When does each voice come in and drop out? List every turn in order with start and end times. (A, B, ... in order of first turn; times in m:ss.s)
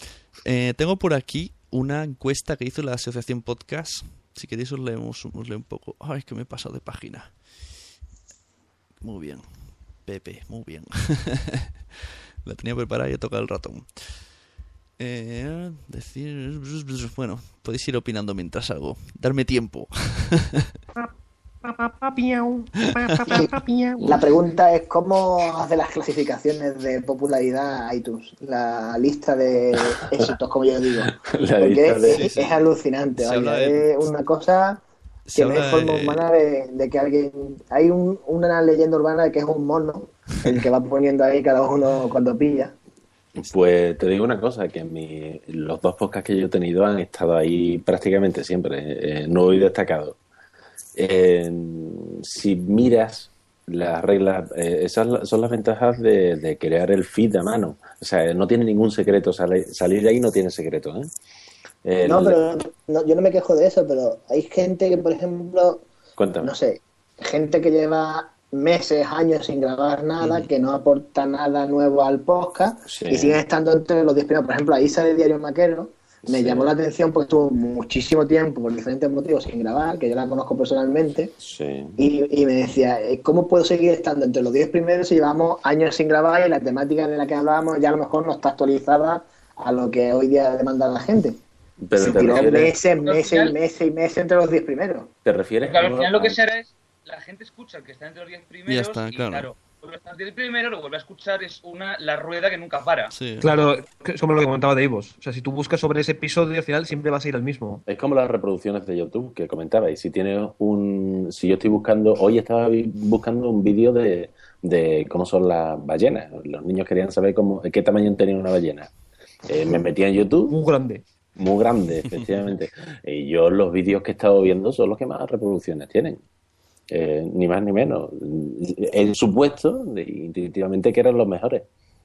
0:00.4-0:07.3 A
0:09.0-0:11.7 A
0:12.4-0:14.2 A
0:15.0-0:20.7 A
0:21.6-0:24.0 B
0:24.0-0:34.8 C
0:31.1-0:32.5 D
0:32.1-0:32.4 A
0:33.2-0:33.9 A
0:35.3-0:36.2 A
0:35.4-0:42.8 C
0:43.4-0:50.2 D
0:51.0-1:01.1 D
1:01.8-1:02.4 D
1:02.0-1:05.9 C
1:06.2-1:06.5 D
1:06.4-1:21.3 C
1:12.9-1:13.4 D
1:16.3-1:16.7 D
1:21.4-1:22.0 D
1:22.0-1:31.4 C
1:31.8-1:32.7 D
1:32.0-1:35.1 C
1:32.0-1:33.5 E
1:35.2-1:36.4 D
1:35.7-1:43.1 E
1:38.7-1:39.5 A
1:43.1-1:43.5 A
1:43.4-1:47.8 B
1:47.9-1:58.9 D
1:59.5-2:00.6 D
2:00.5-2:01.0 B
2:01.4-2:06.2 D
2:06.9-2:11.7 D